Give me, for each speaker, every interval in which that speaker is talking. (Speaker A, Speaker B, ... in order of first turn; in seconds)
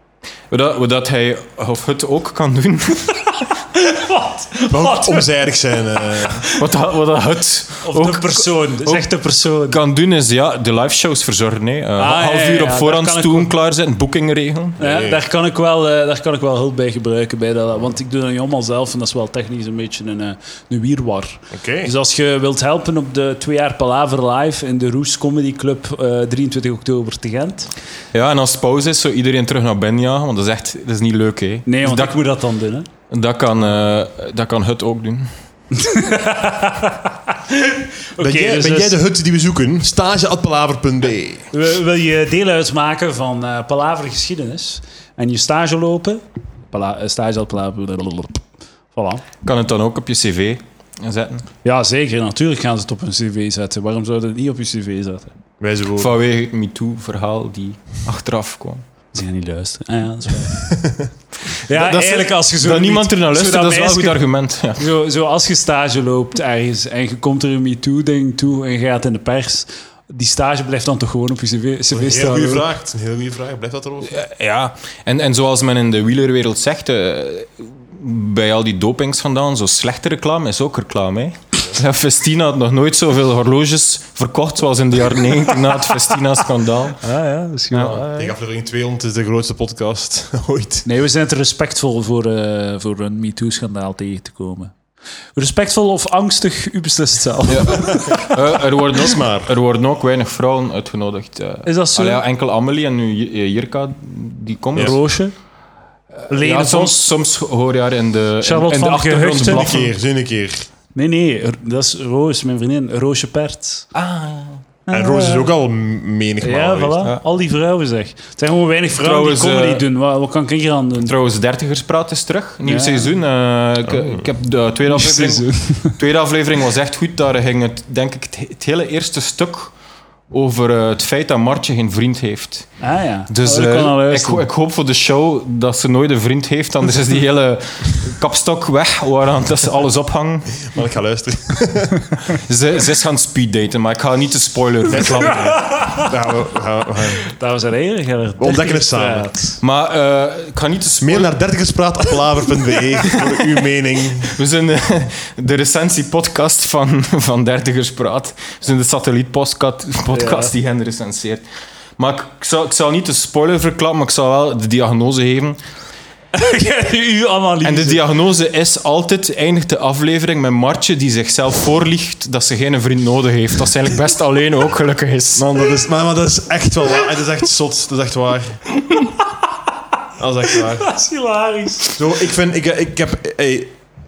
Speaker A: 0.5-3.5, 6.5-14.8, 28.1-32.2, 33.1-35.3, 49.4-51.5, 56.0-58.8, 61.7-64.8, 74.1-87.0, 87.7-88.2, 97.5-105.0, 106.2-109.9, 113.9-114.6, 119.0-119.8, 121.0-129.7, 130.3-140.7, 142.3-145.9, 149.6-151.3, 153.1-153.5, 154.3-161.4, 162.0-165.6, 167.6-175.4
Speaker B: 3.7-5.3, 6.0-6.6, 7.8-9.8, 12.0-13.5, 14.8-27.7, 31.7-32.9, 35.7-39.0, 41.5-49.2, 51.6-55.4, 59.1-60.8, 61.6-64.2, 64.8-72.7, 87.0-88.3, 90.8-94.7, 95.4-98.3, 101.7-102.2, 104.8-105.3, 106.3-107.0, 108.4-109.8, 111.0-113.9, 114.9-115.5, 116.4-121.1, 122.6-123.1, 124.9-126.0, 132.8-134.4, 145.6-146.0, 147.3-149.6, 160.1-160.5, 166.3-168.0, 180.6-182.0
Speaker C: 4.7-6.4, 14.8-15.2, 21.5-21.9, 38.2-41.5, 55.6-56.1, 60.7-61.1, 71.9-74.2, 88.1-90.9, 98.9-99.5, 109.5-110.7, 114.9-117.1, 123.9-124.2, 140.7-142.1, 144.9-147.3, 148.4-149.3, 151.0-154.3, 175.3-178.6, 180.2-180.9, 181.9-183.7